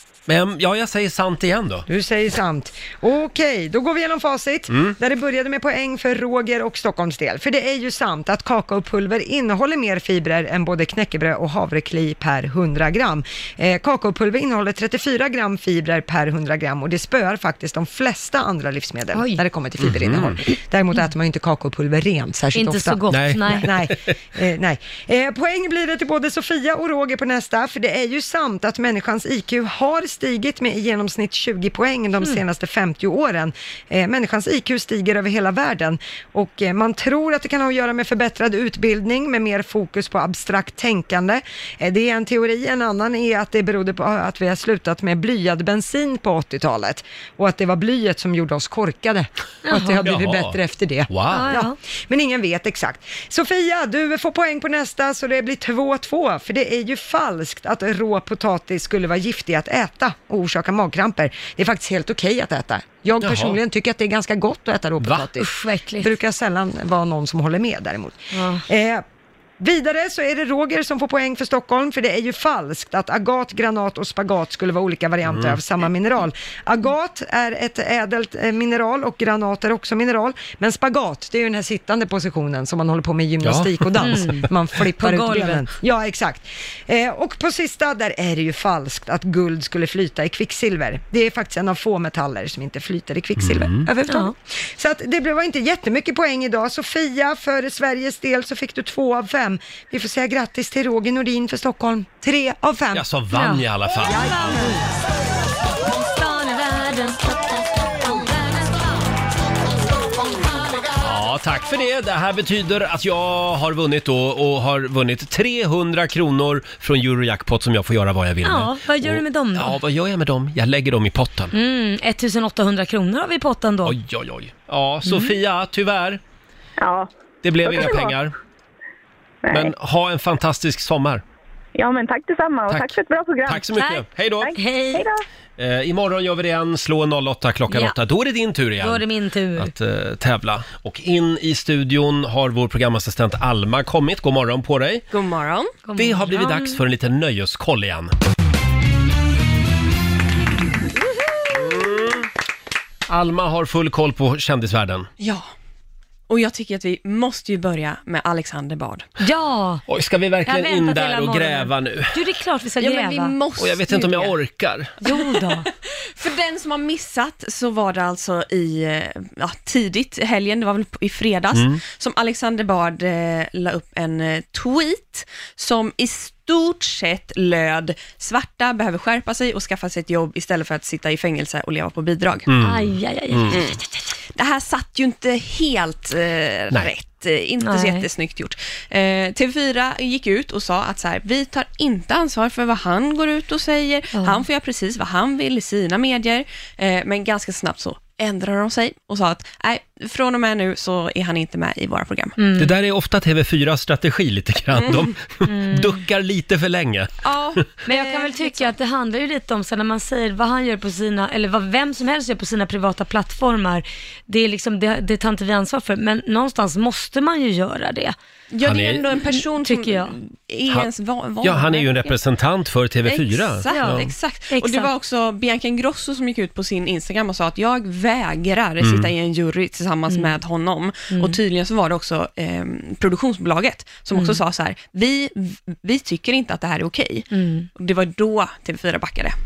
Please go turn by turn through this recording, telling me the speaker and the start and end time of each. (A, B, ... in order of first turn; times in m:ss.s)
0:00.3-0:01.9 A
0:01.9-1:09.0 B
0:04.7-0:05.0 A
0:19.1-0:19.4 C
0:19.8-0:20.4 A
0:22.5-0:23.7 C
0:23.1-0:24.1 A
0:49.7-0:50.0 C
0:50.0-0:51.6 A
0:51.3-0:51.7 C
1:03.2-1:03.6 A
1:05.0-1:05.3 A
1:05.4-1:06.1 C
1:08.3-1:08.6 C
1:09.6-1:43.0 B
1:15.3-1:15.6 A
1:23.4-1:24.3 A
1:24.0-1:24.4 C
1:25.0-1:25.6 C
1:33.4-1:33.9 A
1:34.1-1:34.3 C
1:42.9-1:44.5 A
1:43.3-1:44.8 C
1:44.0-1:44.8 B
1:45.9-1:47.3 C
1:48.0-1:48.8 C
1:51.0-2:01.5 A
1:58.4-1:59.8 C
2:01.5-2:04.0 C
2:03.8-2:06.2 A
2:05.0-2:05.3 C
2:06.8-2:07.1 D
2:07.4-2:08.3 A
2:07.6-2:08.1 D
2:09.4-2:09.7 D
2:09.5-2:11.2 A
2:11.7-2:13.8 D
2:12.7-2:14.6 A
2:13.8-2:14.0 C
2:14.4-2:15.2 D
2:14.5-2:15.0 C
2:15.6-2:19.0 A
2:17.7-2:18.0 C
2:18.8-2:19.7 C
2:19.6-2:25.1 A
2:25.1-2:25.8 E
2:25.8-2:26.8 C
2:26.0-2:28.1 A
2:31.5-2:32.3 A
2:33.1-2:35.1 A
2:35.2-2:35.5 E
2:36.3-2:39.1 E
2:39.2-2:39.8 C
2:39.9-2:42.1 A
2:40.4-2:43.4 C
2:42.8-2:44.4 E
2:43.6-2:44.9 A
2:45.0-2:45.7 C
2:45.0-3:02.5 E
2:51.5-2:51.8 A
3:02.5-3:03.6 A
3:02.6-3:04.0 C
3:03.5-3:03.8 E
3:04.3-3:22.4 E
3:07.6-3:08.1 C
3:14.1-3:14.4 C
3:22.4-3:22.7 C
3:22.6-3:27.2 A
3:24.8-3:25.1 E
3:25.5-3:26.0 C
3:27.2-3:28.7 E
3:27.9-3:38.2 C
3:38.5-3:42.2 E
3:38.6-3:39.1 A
3:39.4-3:40.1 C
3:41.4-3:44.1 A
3:43.0-3:59.4 E
3:43.7-3:44.9 C
3:48.8-3:49.1 A
3:50.1-3:50.4 C
3:51.1-3:51.4 C
3:54.1-3:54.4 C
3:57.3-3:57.7 C